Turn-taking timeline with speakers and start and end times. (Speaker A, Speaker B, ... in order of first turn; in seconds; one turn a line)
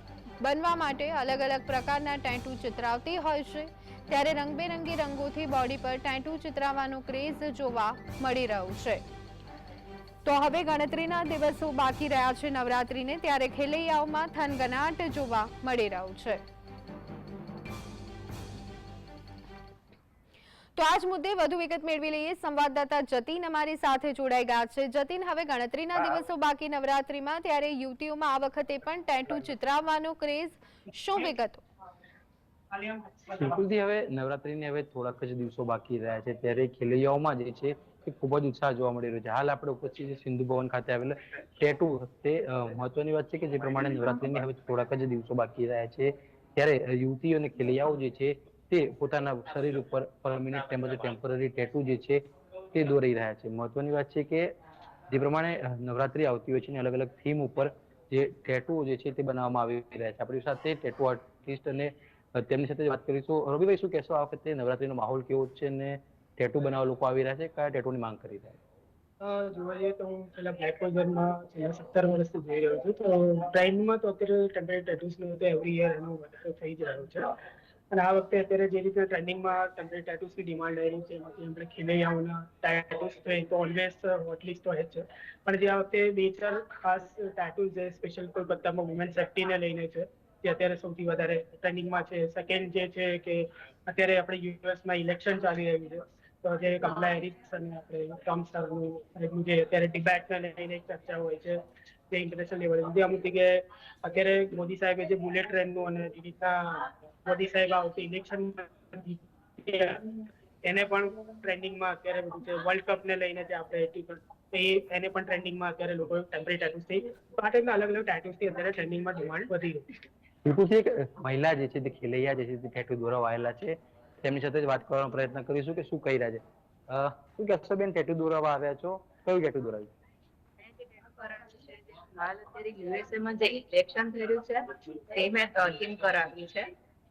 Speaker A: 0.4-9.0
Speaker A: 10.2-16.4
Speaker A: 20.8-31.6
Speaker B: 32.7-33.3
Speaker C: 33.3-52.2
Speaker C: 52.7-54.5
Speaker C: 55.1-68.6
Speaker B: 69.2-77.3
Speaker B: 77.9-101.6
Speaker B: 102.1-119.9
Speaker C: 120.4-129.9
Speaker D: 130.6-136.7